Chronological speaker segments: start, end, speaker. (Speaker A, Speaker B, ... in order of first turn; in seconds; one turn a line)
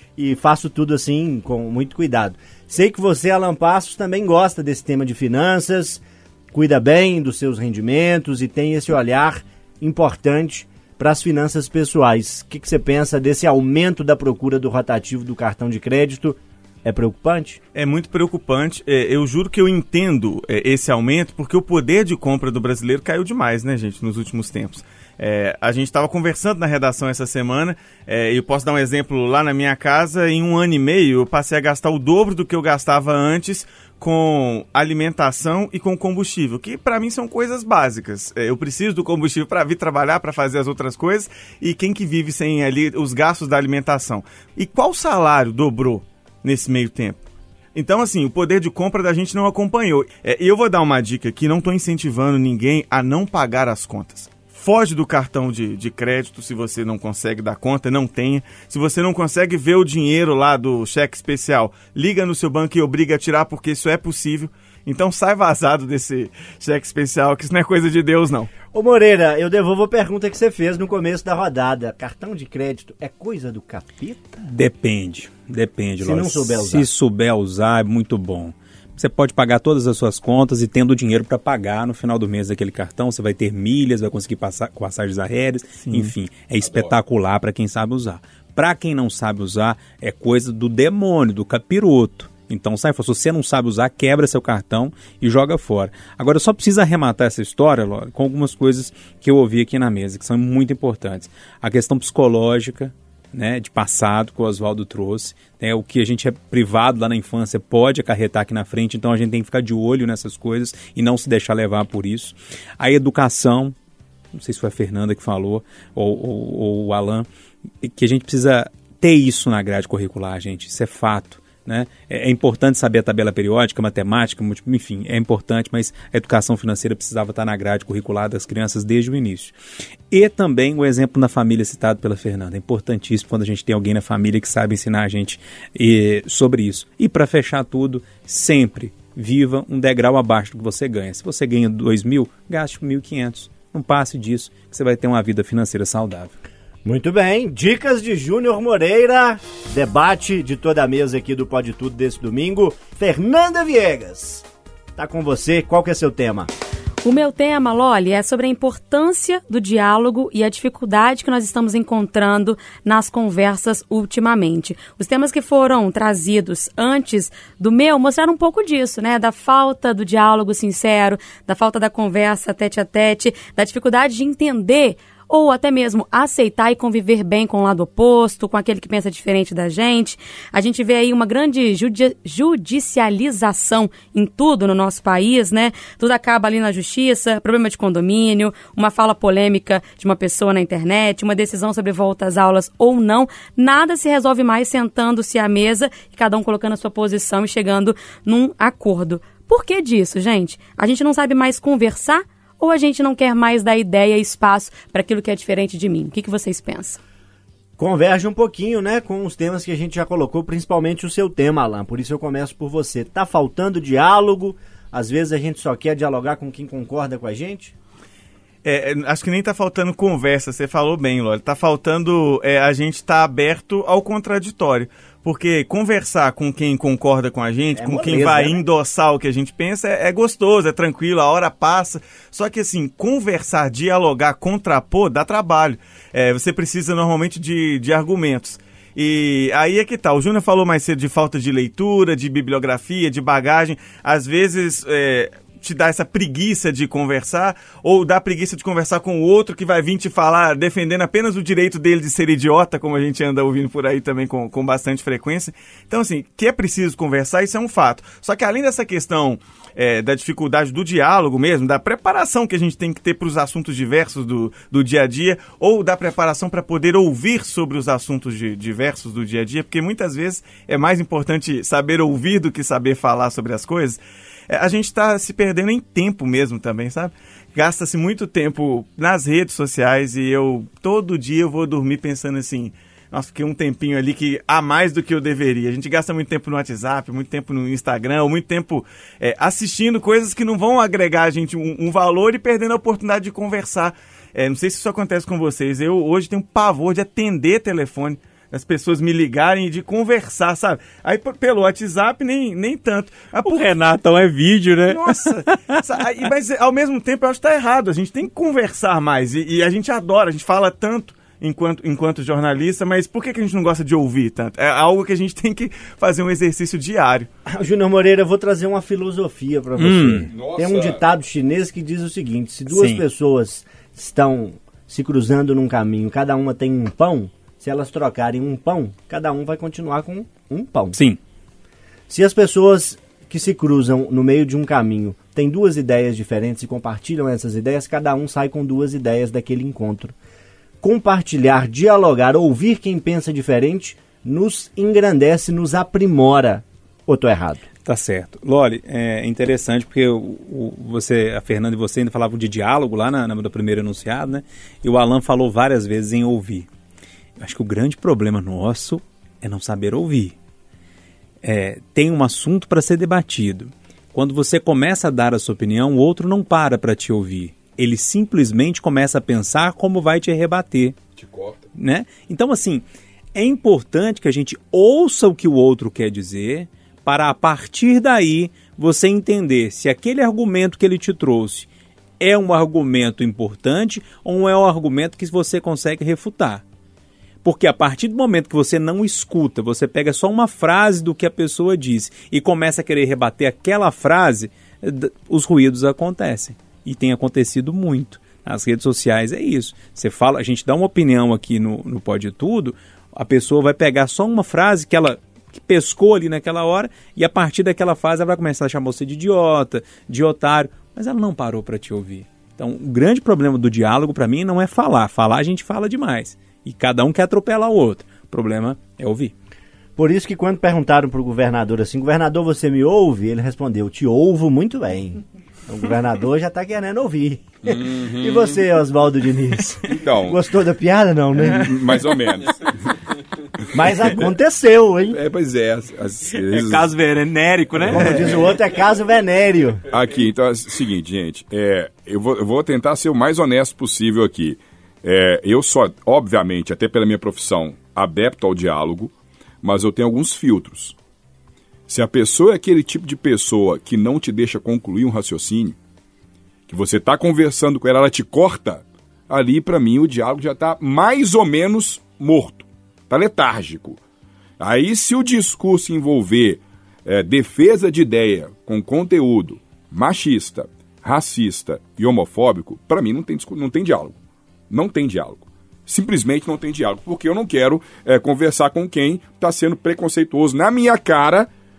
Speaker A: 0.2-17.6
Speaker B: 17.8-47.2
Speaker B: 47.7-68.5
Speaker A: 68.7-74.3
Speaker C: 74.4-113.8
Speaker A: 76.0-76.9
Speaker D: 86.6-86.9
Speaker C: 114.3-117.3
Speaker C: 117.8-129.5
Speaker C: 130.1-146.3
Speaker A: 146.8-156.5
Speaker E: 157.0-207.0
Speaker A: 207.8-217.7
Speaker B: 218.6-303.7
Speaker A: 227.8-228.6
Speaker C: 303.4-305.8
Speaker B: 304.9-317.3
Speaker A: 317.5-331.0
Speaker C: 319.8-320.3
Speaker D: 320.3-321.0
Speaker C: 322.7-323.0
Speaker C: 330.9-331.2
Speaker A: 332.1-340.1
Speaker A: 340.8-347.6
Speaker C: 347.9-356.7
Speaker C: 357.4-360.4
Speaker C: 361.4-371.0
Speaker D: 371.2-371.7
Speaker C: 371.8-381.7
Speaker C: 382.2-386.6
Speaker C: 387.4-419.3
Speaker A: 420.0-431.8
Speaker D: 427.6-428.5
Speaker D: 429.9-430.4
Speaker D: 431.5-432.7
Speaker A: 433.7-435.2
Speaker D: 435.1-436.9
Speaker C: 436.4-438.4
Speaker A: 437.9-439.8
Speaker D: 439.9-451.0
Speaker D: 451.9-455.8
Speaker D: 456.7-464.0
Speaker D: 464.6-474.2
Speaker D: 474.7-481.5